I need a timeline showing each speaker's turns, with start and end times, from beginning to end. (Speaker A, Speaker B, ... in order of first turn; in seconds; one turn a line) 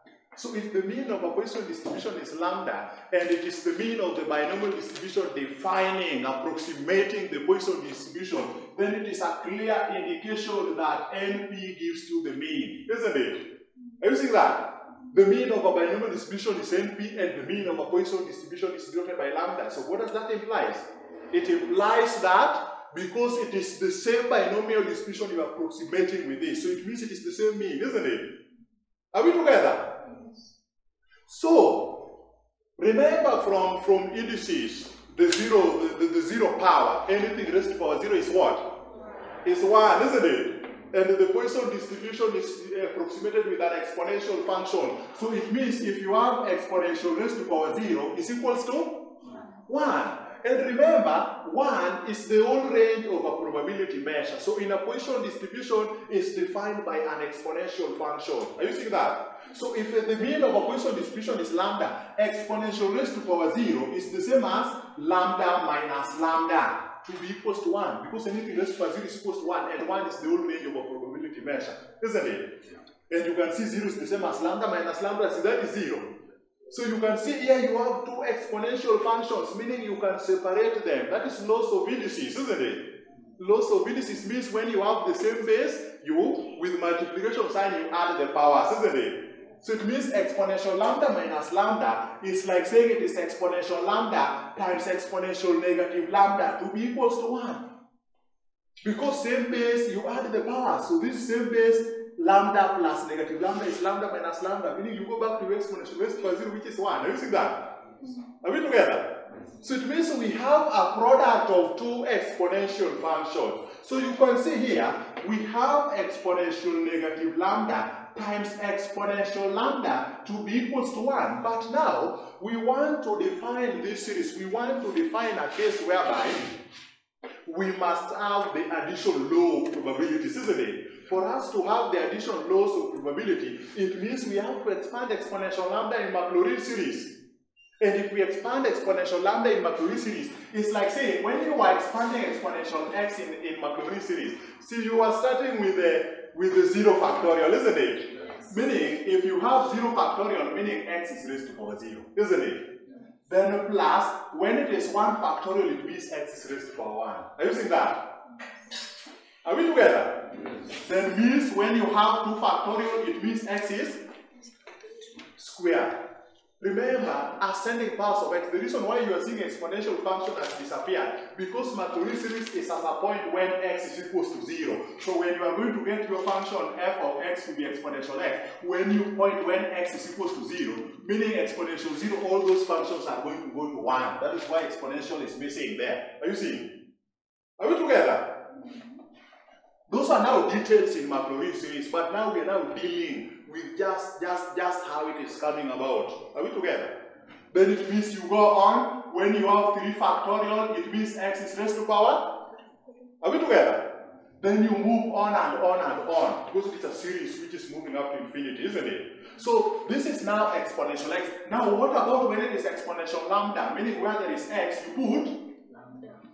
Speaker A: 0.3-13.5
Speaker A: 14.0-28.4
Speaker A: 29.1-29.9
Speaker A: 31.3-32.1
Speaker A: 32.8-38.8
Speaker A: 39.4-49.1
Speaker A: 49.7-72.5
Speaker A: 73.1-76.2
Speaker A: 76.7-97.6
Speaker A: 98.8-126.6
Speaker A: 127.5-137.2
Speaker A: 137.8-152.7
Speaker A: 153.3-158.2
Speaker A: 159.4-164.0
Speaker A: 165.4-166.0
Speaker A: 166.6-186.7
Speaker A: 187.6-188.4
Speaker A: 189.9-197.0
Speaker A: 197.5-202.4
Speaker A: 203.2-215.4